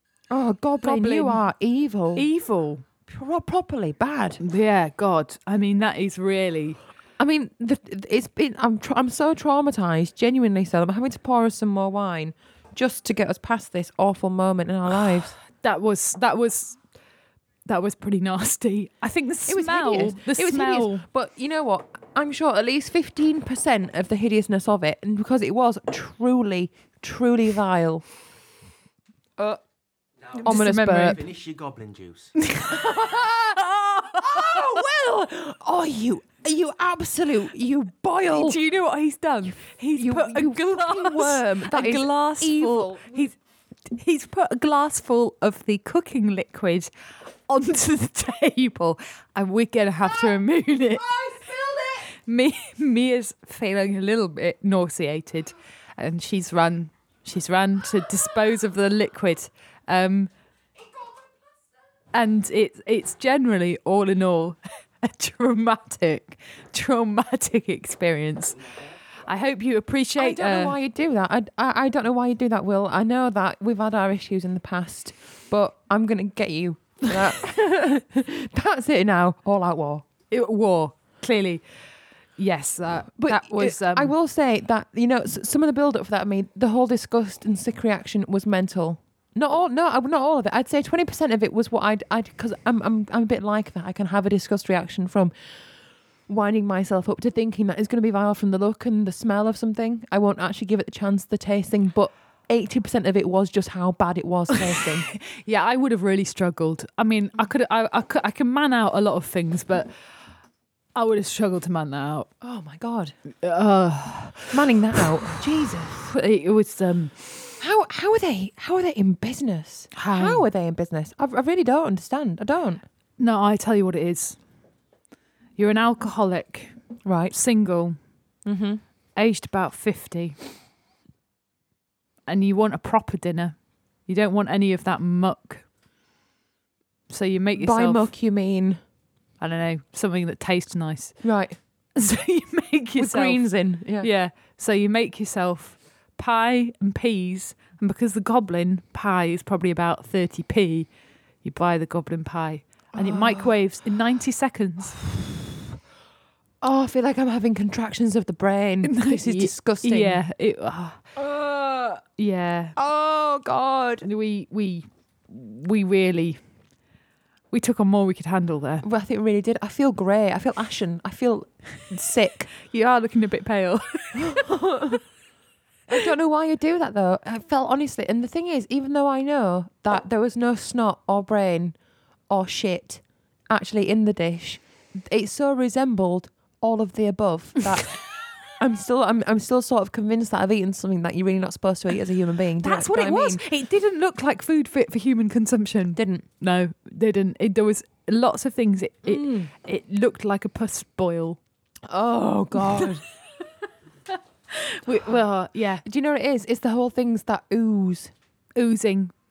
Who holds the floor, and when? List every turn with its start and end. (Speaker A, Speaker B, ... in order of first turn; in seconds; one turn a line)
Speaker A: 0.3-2.3
Speaker B: 0.8-1.4
Speaker B: 2.1-2.9
Speaker A: 3.1-4.4
Speaker B: 4.4-6.8
Speaker A: 7.2-15.4
Speaker B: 15.6-16.8
Speaker B: 17.7-21.1
Speaker A: 19.5-28.1
Speaker C: 30.3-32.3
Speaker B: 30.4-31.2
Speaker A: 30.4-31.2
Speaker B: 32.4-33.0
Speaker A: 32.7-38.6
Speaker B: 33.6-34.6
Speaker B: 38.3-46.9
Speaker A: 40.0-43.2
Speaker B: 47.5-51.3
Speaker A: 51.1-52.0
Speaker B: 52.1-60.3
Speaker B: 62.1-70.8
Speaker A: 70.2-80.0
Speaker B: 80.3-81.6
Speaker B: 82.4-84.1
Speaker A: 83.2-95.3
Speaker A: 96.3-105.1
Speaker B: 104.8-109.9
Speaker B: 111.0-112.3
Speaker A: 112.4-113.1
Speaker B: 113.4-114.5
Speaker A: 114.5-116.1
Speaker B: 116.0-117.4
Speaker A: 117.6-122.8
Speaker B: 119.9-120.5
Speaker B: 123.2-124.4
Speaker B: 125.6-126.7
Speaker A: 127.0-127.3
Speaker B: 127.3-128.0
Speaker A: 128.4-128.8
Speaker B: 129.2-130.4
Speaker B: 132.3-135.7
Speaker B: 137.1-138.1
Speaker A: 137.6-138.8
Speaker B: 139.4-141.2
Speaker A: 141.2-141.6
Speaker B: 142.0-150.9
Speaker A: 143.0-144.1
Speaker B: 151.4-155.0
Speaker A: 152.9-153.5
Speaker A: 156.6-160.2
Speaker B: 158.8-161.1
Speaker A: 161.2-162.0
Speaker B: 162.2-162.8
Speaker A: 162.8-164.1
Speaker B: 164.0-166.4
Speaker B: 167.5-168.9
Speaker A: 168.8-172.5
Speaker B: 172.6-174.9
Speaker A: 174.2-175.0
Speaker A: 175.9-181.8
Speaker A: 182.3-187.9
Speaker A: 188.5-193.4
Speaker B: 192.6-201.4
Speaker A: 196.0-196.2
Speaker A: 199.1-199.5
Speaker A: 201.9-203.0
Speaker B: 204.5-205.8
Speaker A: 205.8-208.1
Speaker B: 208.6-209.1